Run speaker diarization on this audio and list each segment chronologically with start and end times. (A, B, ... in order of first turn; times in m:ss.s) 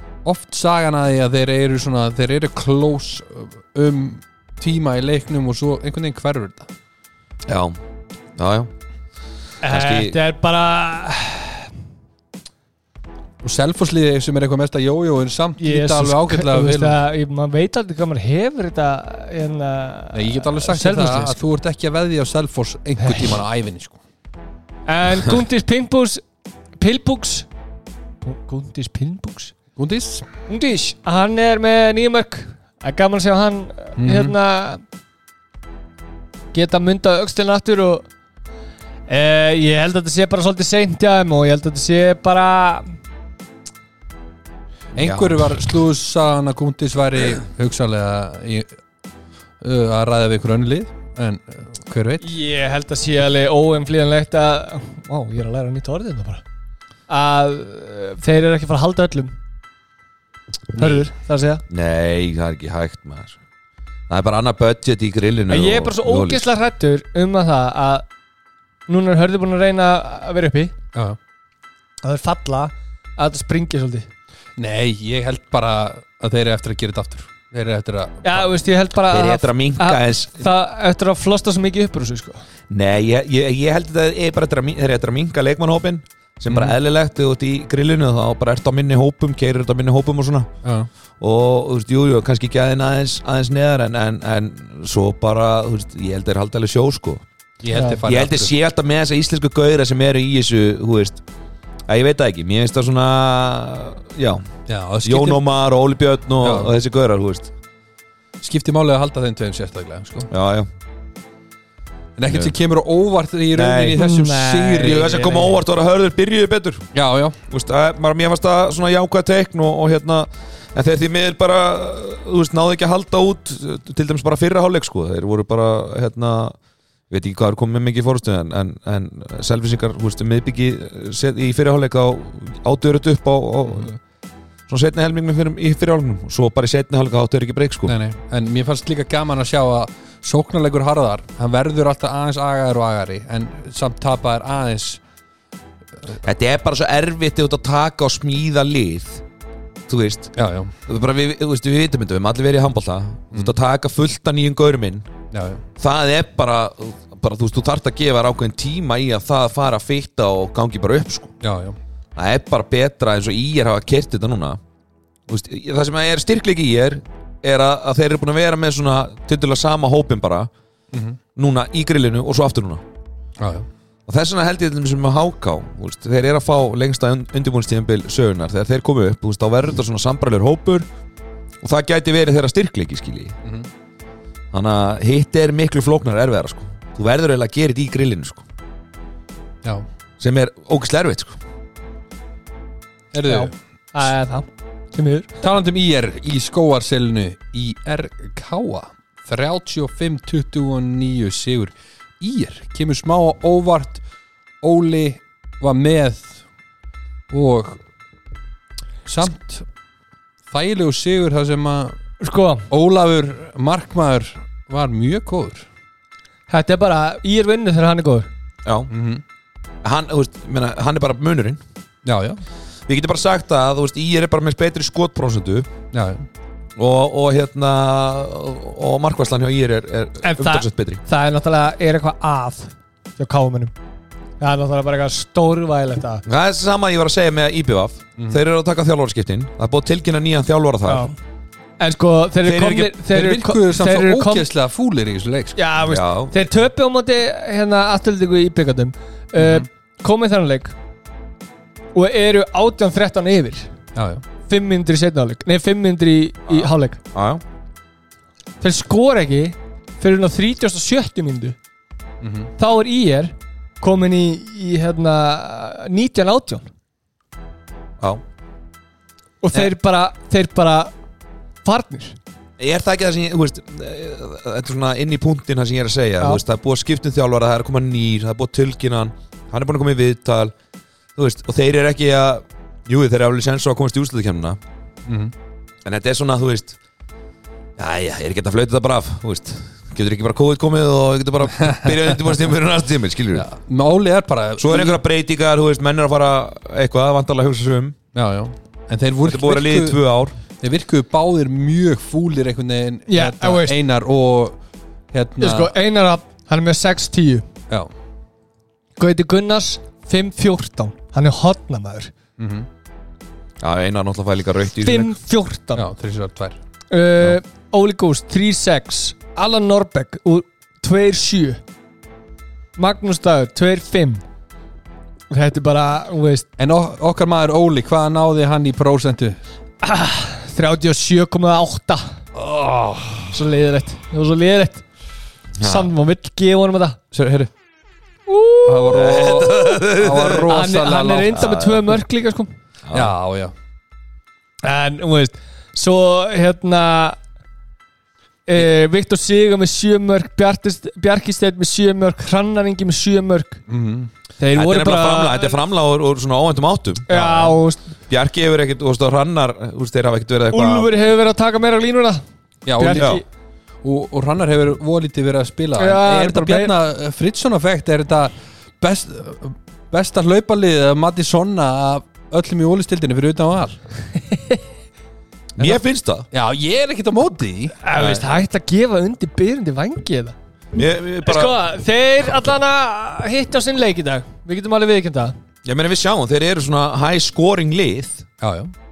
0:00.2-0:06.7 A
0:07.5-0:07.8 B
0:08.4-0:08.7 B
0:09.6-0:11.7 C
0:09.6-0:10.2 B
0:13.4-0:17.0 A
0:15.6-0:21.4 C
0:20.1-0:24.0 A
0:23.0-0:23.4 C
0:24.9-0:26.2 C
0:26.8-0:27.5 C
0:28.2-0:29.6 C
0:29.8-0:30.3 A
0:30.5-0:34.8 C
0:34.0-0:34.4 A
0:36.5-0:38.0 C
0:39.1-0:42.9 C
0:44.9-0:48.7 A
0:45.0-0:45.5 B
0:49.6-0:52.3 A
0:52.2-0:56.4 C
0:57.1-0:59.3 C
1:00.8-1:01.6 C
1:00.8-1:01.0 A
1:01.7-1:03.4 B
1:04.1-1:06.5 B
1:05.5-1:08.0 C
1:08.9-1:10.7 C
1:12.0-1:14.1 C
1:14.6-1:18.5 A
1:18.2-1:22.4 C
1:19.1-1:20.4 B
1:22.7-1:30.5 B
1:26.5-1:26.8 A
1:30.6-1:30.9 A
1:31.2-1:37.2 B
1:37.6-1:38.5 A
1:37.7-1:38.0 C
1:38.0-1:41.2 B
1:41.9-1:44.4 B
1:44.7-1:45.4 A
1:45.0-1:47.5 B
1:46.4-1:46.8 A
1:48.4-1:50.3 A
1:50.3-1:50.7 B
1:52.2-1:55.5 A
1:52.3-1:52.5 B
1:53.5-1:54.1 B
1:53.9-1:55.5 C
1:54.8-1:56.9 B
1:56.9-1:57.4 A
1:57.5-2:06.6 B
2:07.1-2:14.0 B
2:14.7-2:17.9 B
2:17.9-2:25.0 A
2:26.2-2:29.2 B
2:29.9-2:30.3 B
2:30.4-2:30.8 A
2:30.9-2:35.1 B
2:35.3-2:35.6 A
2:35.8-2:41.3 B
2:41.4-2:41.8 A
2:42.2-2:44.6 B
2:45.3-2:50.5 B
2:50.9-2:51.2 A
2:51.4-2:52.8 B
2:53.4-2:53.7 A
2:54.1-3:00.9 B
3:01.6-3:03.4 B
3:04.5-3:08.4 B
3:10.2-3:11.4 B
3:13.1-3:13.5 A
3:13.3-3:15.3 C
3:15.4-3:24.0 A
3:24.6-3:26.4 A
3:27.3-3:27.8 A
3:29.1-3:29.7 A
3:30.5-3:32.0 A
3:32.2-3:32.7 C
3:32.7-3:35.7 A
3:36.5-3:38.3 C
3:38.6-3:38.9 B
3:38.9-3:39.2 A
3:39.8-3:41.6 B
3:42.0-3:42.4 A
3:42.9-3:45.7 B
3:45.9-3:46.3 A
3:46.8-3:51.0 B
3:50.2-3:53.7 C
3:54.4-3:56.2 C
3:56.3-4:01.1 B
4:00.9-4:01.2 C
4:01.8-4:04.5 C
4:02.4-4:02.9 B
4:03.1-4:05.6 A
4:05.6-4:10.7 C
4:05.9-4:06.3 B
4:09.4-4:09.7 A
4:12.0-4:13.7 C
4:14.0-4:14.2 A
4:14.5-4:17.0 C
4:16.5-4:17.4 B
4:18.6-4:21.6 C
4:22.2-4:22.5 A
4:22.6-4:26.7 C
4:29.4-4:30.9 C
4:31.6-4:32.2 C
4:32.6-4:40.5 B
4:41.2-4:44.6 B
4:45.1-4:45.3 A
4:45.8-4:46.8 B
4:47.8-4:53.5 B
4:51.6-4:51.9 A
4:53.3-4:55.0 A
4:54.6-4:58.0 B
4:58.1-5:00.0 A
4:59.2-5:00.3 B
5:00.6-5:04.6 A
5:03.1-5:03.8 C
5:05.1-5:05.7 A
5:05.4-5:07.5 C
5:09.0-5:12.1 C
5:12.4-5:12.7 A
5:13.6-5:15.1 B
5:14.8-5:15.8 C
5:15.8-5:16.6 A
5:16.9-5:21.6 C
5:22.8-5:24.2 C
5:25.3-5:26.5 C
5:26.6-5:29.4 A
5:29.8-5:32.2 C
5:32.4-5:33.4 A
5:33.3-5:34.8 C
5:35.6-5:35.9 B
5:35.6-5:37.0 C
5:37.1-5:37.5 A
5:38.3-5:39.1 C
5:38.6-5:41.5 A
5:38.9-5:40.5 B
5:40.4-5:42.5 C
5:41.4-5:41.9 B
5:42.9-5:43.1 B
5:42.9-5:43.5 A
5:44.6-5:47.2 C
5:48.5-5:53.6 C
5:53.7-5:54.1 A
5:54.4-5:55.6 C
5:54.5-5:57.2 B
5:57.1-5:57.8 C
5:57.1-5:57.6 A
5:58.1-6:00.9 B
6:00.5-6:02.2 C
6:02.7-6:03.2 A
6:02.8-6:03.2 C
6:03.8-6:13.8 A
6:05.8-6:06.7 C
6:15.6-6:16.3 B
6:16.3-6:17.8 A
6:17.8-6:20.4 C
6:17.9-6:18.2 B
6:20.7-6:21.6 B
6:21.2-6:25.4 C
6:25.6-6:28.2 B
6:28.4-6:28.7 A